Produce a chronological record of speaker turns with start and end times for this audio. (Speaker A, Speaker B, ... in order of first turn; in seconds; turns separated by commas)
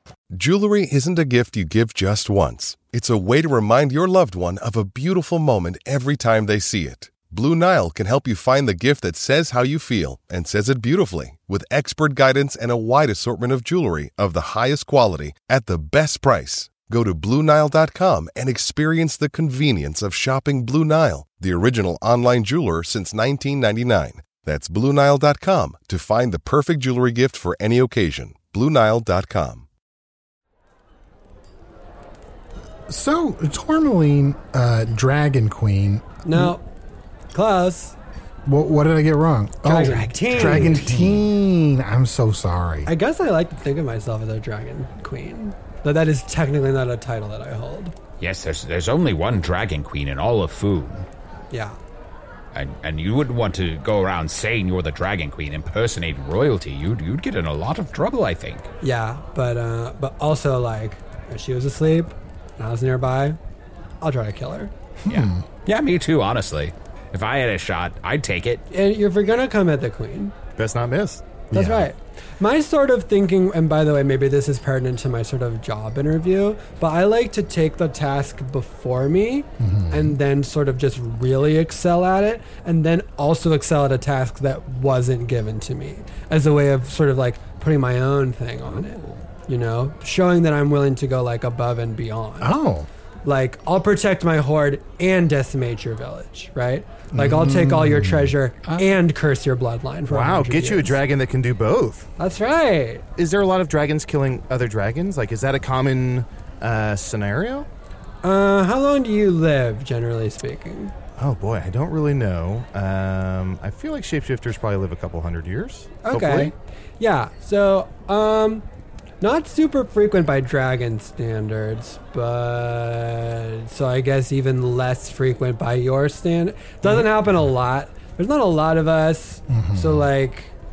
Speaker A: 0.3-29.7, Speaker B: 32.9-36.5, Speaker C: 36.2-36.6, Speaker C: 37.3-38.0, Speaker B: 38.5-42.9, Speaker C: 39.6-40.8, Speaker D: 39.9-41.3, Speaker C: 42.9-48.0, Speaker D: 48.2-51.0, Speaker C: 51.5-51.8, Speaker D: 52.5-58.7, Speaker C: 58.8-63.4, Speaker C: 64.0-64.7, Speaker B: 65.0-65.4, Speaker D: 65.1-68.6, Speaker C: 68.7-70.3, Speaker E: 70.6-71.4, Speaker B: 71.5-71.9, Speaker C: 71.5-92.5, Speaker B: 79.6-80.2, Speaker D: 88.7-89.2, Speaker B: 92.4-92.9, Speaker C: 93.2-101.0, Speaker B: 97.1-98.3, Speaker D: 98.6-98.9, Speaker E: 100.1-102.1, Speaker C: 102.2-103.0, Speaker E: 103.2-107.7, Speaker C: 108.2-110.9, Speaker E: 111.2-116.5, Speaker C: 116.0-118.6, Speaker C: 119.2-130.5, Speaker B: 129.5-130.1